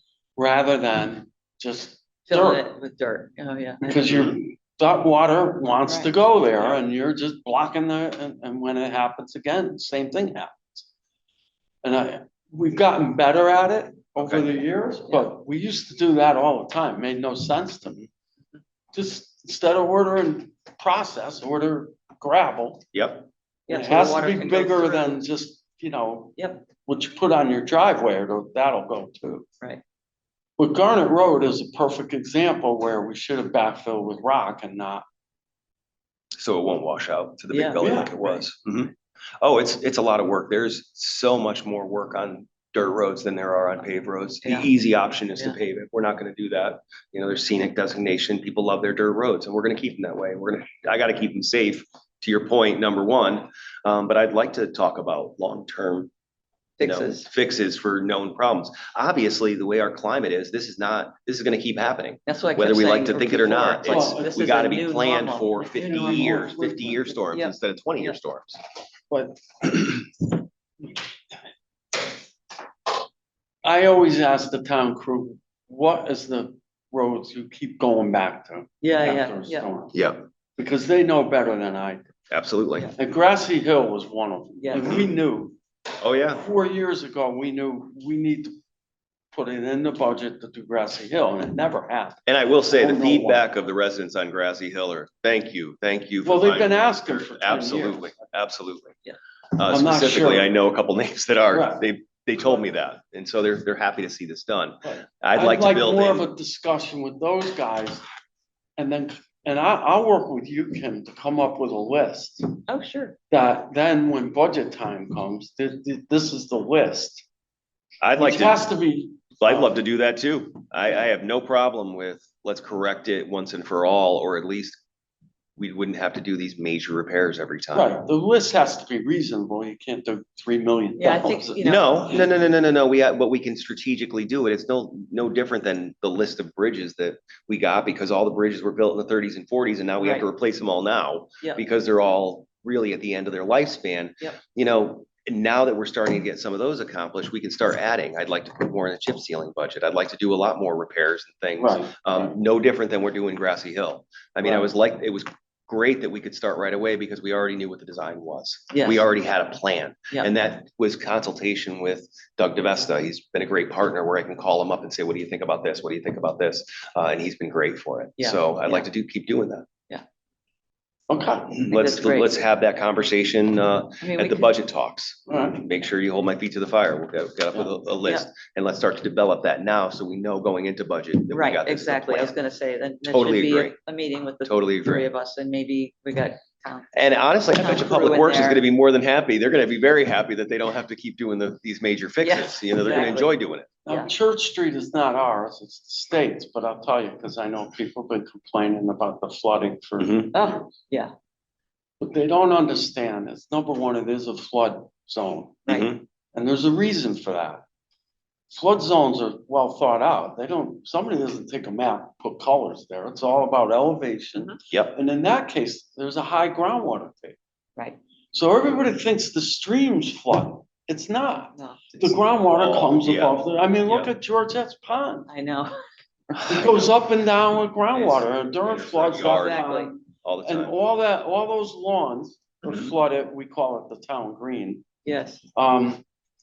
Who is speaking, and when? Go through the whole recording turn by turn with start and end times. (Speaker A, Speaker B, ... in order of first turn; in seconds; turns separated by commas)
Speaker A: 0.4-2.6, Speaker B: 2.3-4.3, Speaker A: 3.8-10.8, Speaker B: 5.8-6.8, Speaker A: 11.8-18.1, Speaker C: 14.2-14.5, Speaker A: 18.9-22.9, Speaker C: 22.9-23.3, Speaker B: 23.7-25.2, Speaker A: 23.7-29.5, Speaker B: 26.4-26.7, Speaker A: 30.6-35.0, Speaker C: 36.4-56.1, Speaker B: 37.5-38.4, Speaker A: 37.8-38.1, Speaker B: 44.4-44.7, Speaker B: 56.8-57.3, Speaker C: 56.8-68.6, Speaker B: 62.3-66.3, Speaker A: 63.9-64.6, Speaker A: 65.7-67.2, Speaker B: 67.3-68.2, Speaker A: 69.1-70.3, Speaker A: 73.6-80.0, Speaker B: 78.8-79.7, Speaker A: 80.6-82.1, Speaker C: 82.3-82.9, Speaker A: 83.0-85.6, Speaker B: 84.6-85.0, Speaker C: 84.8-85.1, Speaker C: 86.0-86.4, Speaker A: 86.3-88.5, Speaker A: 89.3-93.5, Speaker C: 92.3-99.0, Speaker A: 96.2-98.1, Speaker C: 99.5-106.2, Speaker A: 99.7-100.5, Speaker A: 101.5-101.8, Speaker A: 104.8-108.0, Speaker A: 108.8-112.6, Speaker B: 112.7-113.2, Speaker A: 113.3-117.3, Speaker C: 118.0-118.6, Speaker A: 118.2-119.7, Speaker C: 119.4-124.8, Speaker C: 125.6-127.9, Speaker A: 127.7-131.6, Speaker B: 131.0-132.2, Speaker C: 131.6-169.7, Speaker B: 140.0-140.3, Speaker A: 151.6-152.3, Speaker B: 158.7-159.1, Speaker B: 168.2-168.9, Speaker A: 171.1-171.7, Speaker C: 171.5-182.4, Speaker B: 171.7-172.3, Speaker B: 174.0-174.5, Speaker A: 175.3-175.6, Speaker B: 177.6-178.3, Speaker B: 181.3-187.0, Speaker C: 183.0-183.8, Speaker C: 184.4-185.1, Speaker C: 186.9-193.7, Speaker B: 187.5-188.6, Speaker B: 192.2-193.3, Speaker A: 193.9-200.5, Speaker C: 200.0-200.3, Speaker B: 200.3-201.1, Speaker A: 202.0-205.7, Speaker B: 205.7-205.9, Speaker C: 205.7-206.0, Speaker A: 206.3-207.6, Speaker A: 208.5-217.4, Speaker A: 218.3-225.3, Speaker B: 221.6-222.2, Speaker C: 222.5-224.1, Speaker B: 225.3-225.8, Speaker C: 226.4-226.9, Speaker A: 226.5-234.8, Speaker C: 227.9-229.7, Speaker B: 229.2-229.9, Speaker C: 230.2-230.8, Speaker B: 235.1-235.4, Speaker A: 235.6-236.0